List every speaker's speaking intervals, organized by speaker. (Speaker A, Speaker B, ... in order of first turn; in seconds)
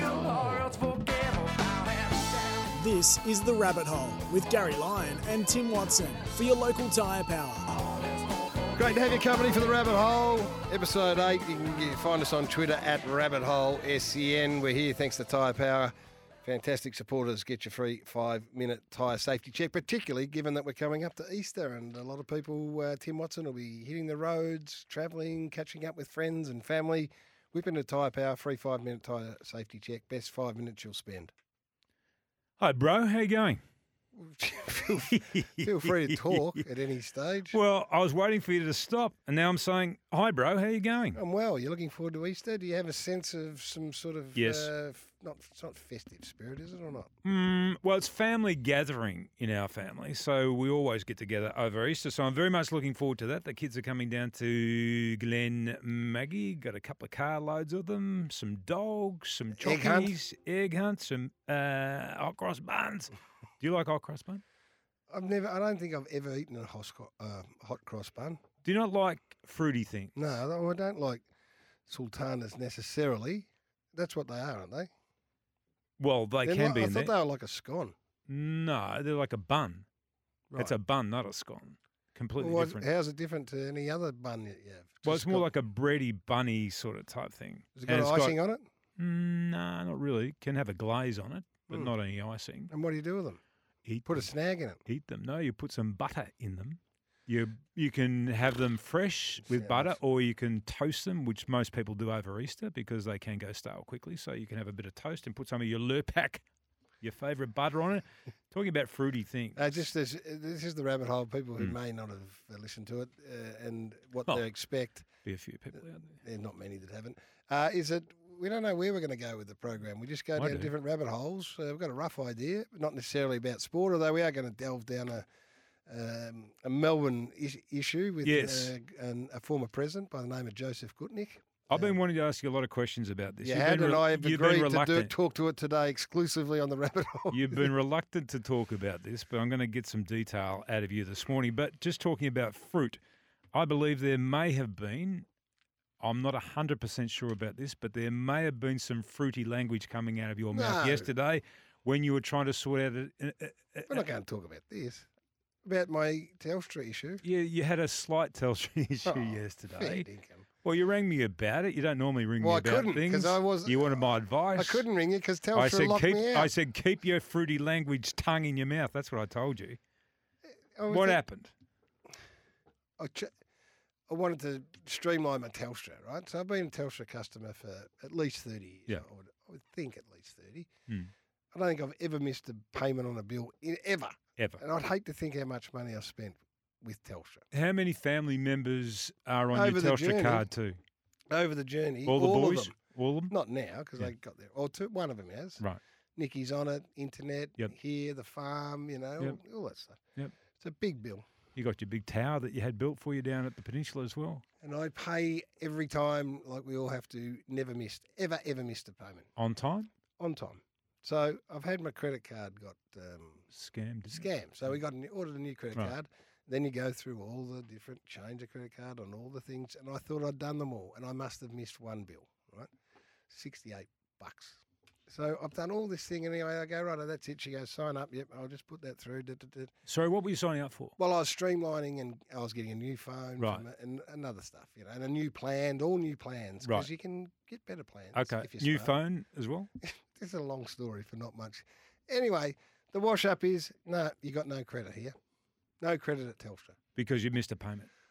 Speaker A: 2.7-7.7
Speaker B: 8.8-31.3, 34.1-37.6, 41.1-47.1, 59.6-60.1, 65.1-68.4, 70.1-71.2, 71.9-74.9, 76.4-77.9, 80.5-80.8, 82.3-85.5, 87.8-88.6, 92.7-93.4, 94.0-94.8, 99.5-100.0, 109.5-115.1, 116.2-125.3, 125.9-131.9, 133.4-137.7, 150.5-151.1, 153.9-155.1, 155.6-157.2, 159.1-160.5, 162.4-166.5, 170.7-171.2, 173.0-173.3, 174.1-180.7, 181.5-187.5, 189.5-190.4, 191.3-192.8, 193.3-195.6, 196.2-200.0, 200.5-201.2, 204.6-209.3, 210.2-213.5, 214.1-222.7, 223.3-229.7, 231.0-238.9, 239.8-245.1, 245.8-246.8
Speaker C: 32.6-33.6, 35.1-36.6, 37.5-41.2, 44.3-44.7, 47.2-64.4, 68.6-70.1, 76.0-77.1, 78.3-79.8, 80.5-82.8, 85.0-88.3, 89.0-92.7, 93.8-94.3, 94.8-106.4, 107.0-109.6, 115.2-116.2, 120.4-120.7, 128.2-128.7, 131.7-135.1, 137.3-143.0, 143.5-145.3, 146.0-154.0, 157.2-160.1, 160.6-164.8, 165.5-169.8, 170.9-171.5, 187.5-190.8, 192.1-193.3, 201.6-204.4, 209.4-209.9, 213.5-214.3, 229.9-230.9, 236.6-236.9, 238.1-239.7, 246.9-247.9